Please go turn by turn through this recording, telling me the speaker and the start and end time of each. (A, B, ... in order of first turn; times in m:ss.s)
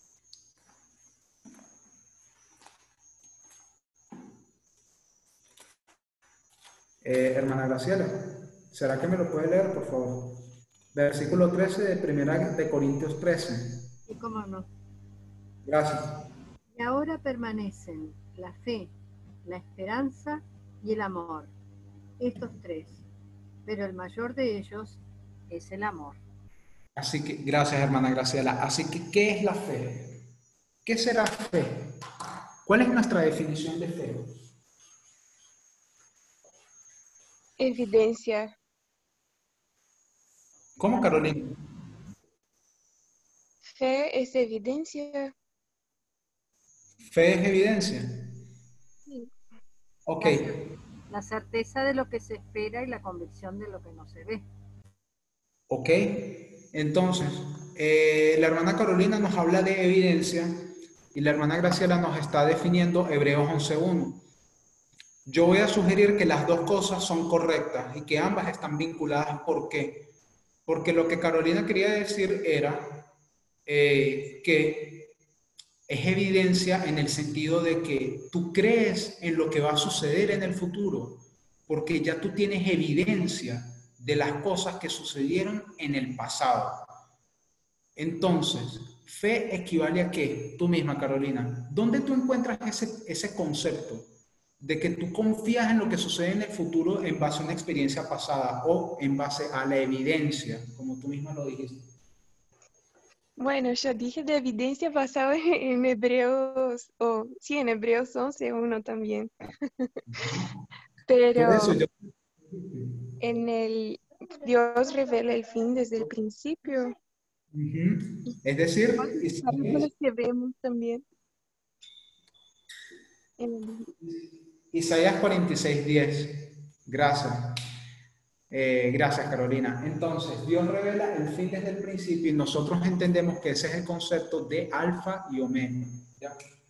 0:07.0-0:13.9 A
0:14.1-0:14.7 B
0:15.6-0:16.2 A
0:16.7-0:18.9 B
0:19.4-0:21.5 B
0:22.2-0:23.0 B
0:23.6-0:26.2 B
0:27.0-0:30.2 A
0:30.8-0:32.0 A
0:32.6-0:34.3 A
0:37.6-0:38.5 C
0:40.8-0:41.6 A
0:43.7-0:45.3 C
0:47.1-0:48.4 A
0:50.0-0:50.5 A
0:50.2-0:54.4 B
0:55.7-1:04.2 A
1:05.2-1:10.1 A
1:10.6-1:13.1 A
1:13.6-1:15.1 A
1:15.9-1:26.8 A
1:28.0-1:41.9 A
1:43.4-1:49.9 C
1:50.1-1:50.6 A
1:51.1-1:51.8 C
1:51.3-1:51.9 A
1:52.5-1:52.9 A
1:53.2-1:57.0 C
1:57.5-1:59.9 A
1:59.0-2:01.0 C
2:03.4-2:03.9 C
2:04.0-2:07.6 A
2:08.5-2:16.3 A